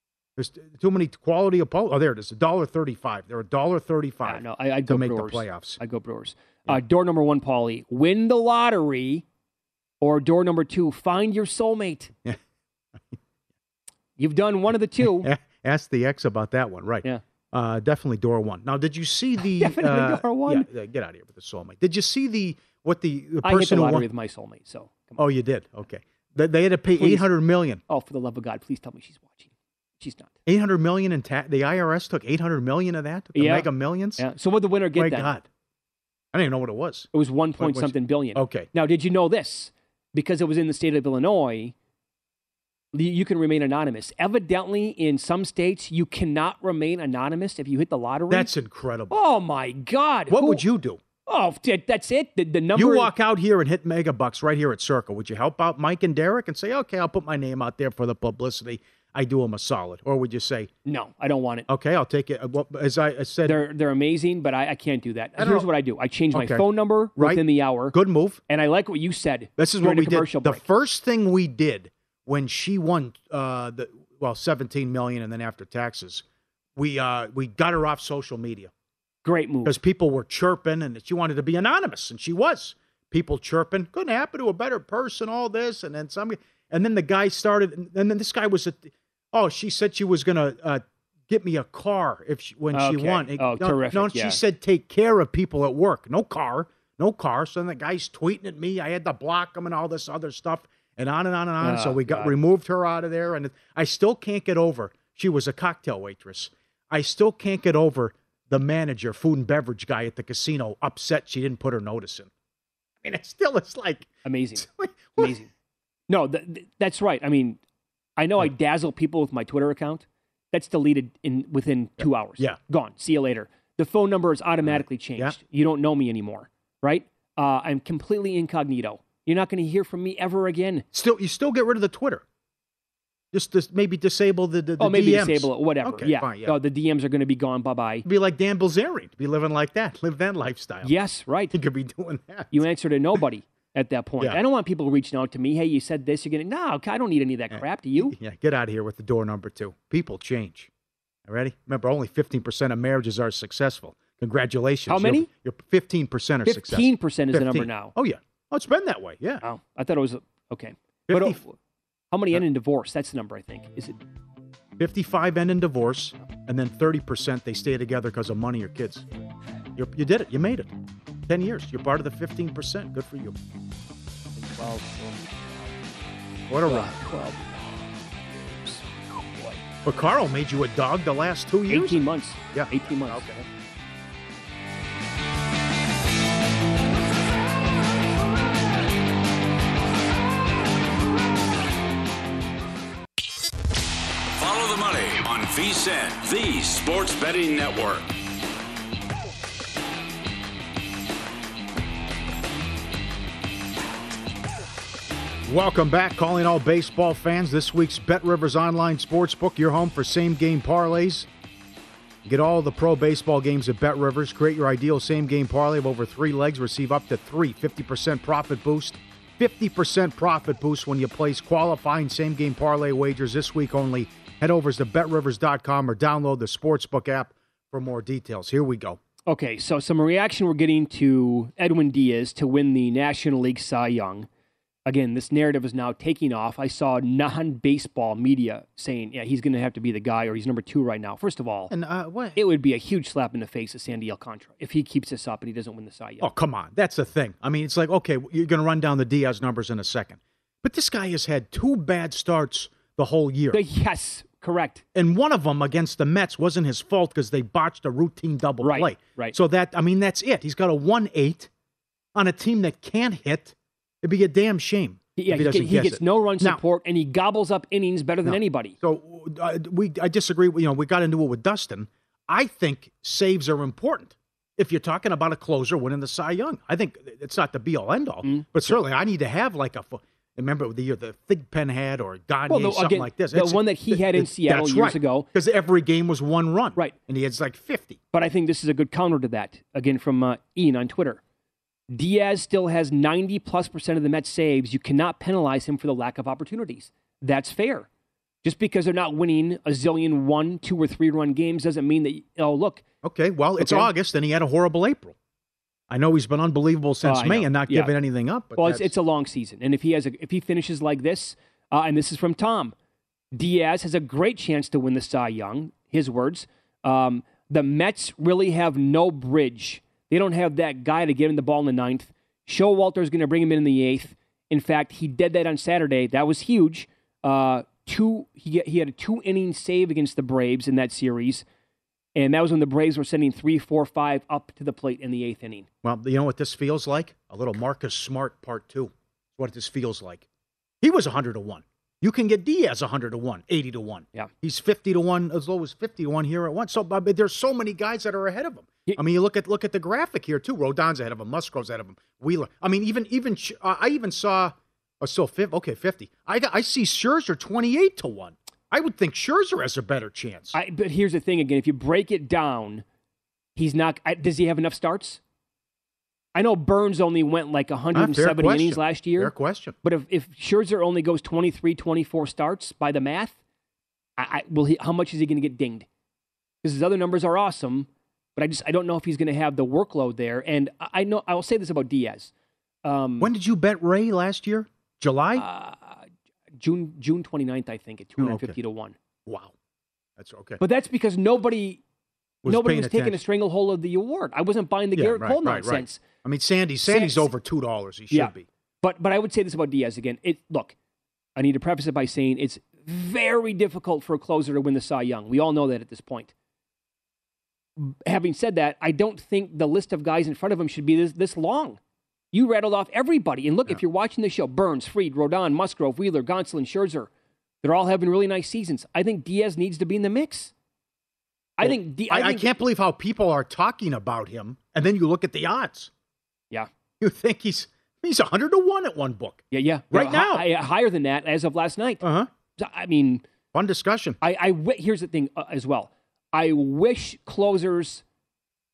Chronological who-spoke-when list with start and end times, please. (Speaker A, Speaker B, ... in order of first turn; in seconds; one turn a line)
Speaker A: 0.4-5.8
Speaker B: 4.2-9.2
Speaker B: 10.0-12.1
Speaker B: 14.2-15.3
Speaker A: 15.0-24.1
Speaker B: 19.4-20.7
Speaker B: 23.4-25.2
Speaker A: 25.2-27.8
Speaker B: 27.0-27.3
Speaker B: 27.9-30.3
Speaker A: 30.4-34.3
Speaker B: 33.3-35.3
Speaker A: 34.9-35.5
Speaker A: 36.3-38.7
Speaker B: 37.1-41.7
Speaker B: 42.9-48.5
Speaker A: 48.3-49.2
Speaker B: 49.1-50.6
Speaker A: 50.3-51.0
Speaker B: 51.3-53.1
Speaker A: 52.7-60.7
Speaker B: 60.9-61.7
Speaker A: 61.7-63.6
Speaker B: 63.4-67.9
Speaker A: 65.4-65.7
Speaker A: 66.3-68.4
Speaker B: 68.5-70.6
Speaker A: 69.6-76.2
Speaker A: 76.8-78.7
Speaker B: 79.2-79.8
Speaker A: 79.6-112.3
Speaker B: 92.7-94.4
Speaker B: 101.6-102.3
Speaker A: 113.0-115.3
Speaker B: 114.2-115.5
Speaker B: 116.1-117.6
Speaker B: 118.2-130.8
Speaker A: 122.0-122.6
Speaker A: 124.6-125.3
Speaker A: 130.9-132.2
Speaker A: 133.3-136.6
Speaker B: 134.8-138.1
Speaker A: 138.0-140.9
Speaker B: 140.8-141.5
Speaker A: 141.5-142.6
Speaker B: 142.5-148.2
Speaker A: 147.5-150.7
Speaker A: 151.2-159.4
Speaker B: 154.9-155.3
Speaker B: 156.4-157.9
Speaker B: 159.4-161.5
Speaker A: 161.1-161.4
Speaker B: 162.1-164.0
Speaker A: 164.8-169.0
Speaker A: 169.8-170.7
Speaker A: 171.3-173.3
Speaker B: 174.4-175.2
Speaker A: 176.5-176.9
Speaker B: 176.7-179.6
Speaker A: 179.8-183.3
Speaker B: 181.7-183.4
Speaker C: 194.3-198.1
Speaker A: 205.5-211.3
Speaker A: 212.2-229.0
Speaker B: 229.3-234.3
Speaker B: 234.8-241.7
Speaker A: 241.7-242.4
Speaker B: 242.3-246.3
Speaker A: 246.2-253.6
Speaker B: 253.5-254.8
Speaker A: 254.9-261.5
Speaker B: 258.6-259.4
Speaker A: 262.1-266.6
Speaker B: 265.1-268.8
Speaker A: 268.2-288.0
Speaker B: 278.2-278.8
Speaker B: 282.5-285.3
Speaker B: 288.1-291.2
Speaker B: 291.9-297.9
Speaker B: 298.4-302.8
Speaker A: 303.0-305.1
Speaker B: 303.6-303.9
Speaker A: 305.9-308.9
Speaker B: 307.0-307.9
Speaker B: 308.6-312.7
Speaker B: 313.3-331.4
Speaker B: 332.1-335.7
Speaker A: 335.8-340.2
Speaker A: 340.8-360.5
Speaker B: 360.5-362.8
Speaker B: 363.6-365.2
Speaker B: 366.3-373.4
Speaker A: 367.9-369.8
Speaker B: 374.2-375.9
Speaker B: 376.6-382.3
Speaker B: 382.8-383.3
Speaker A: 383.2-385.4
Speaker B: 385.3-386.1
Speaker B: 386.6-388.9
Speaker A: 388.2-388.6
Speaker A: 389.2-389.5
Speaker A: 390.2-390.6
Speaker B: 390.6-391.8
Speaker A: 392.4-393.2
Speaker B: 392.4-396.0
Speaker A: 394.9-398.5
Speaker B: 396.9-397.3
Speaker B: 398.1-400.7
Speaker B: 401.4-406.3
Speaker B: 407.8-411.8
Speaker B: 412.3-417.1
Speaker B: 417.6-420.5
Speaker B: 421.6-422.5
Speaker A: 421.6-425.9
Speaker A: 427.0-430.4
Speaker B: 429.5-432.0
Speaker A: 432.0-432.3
Speaker B: 432.6-433.2
Speaker A: 433.5-434.2
Speaker B: 434.2-438.0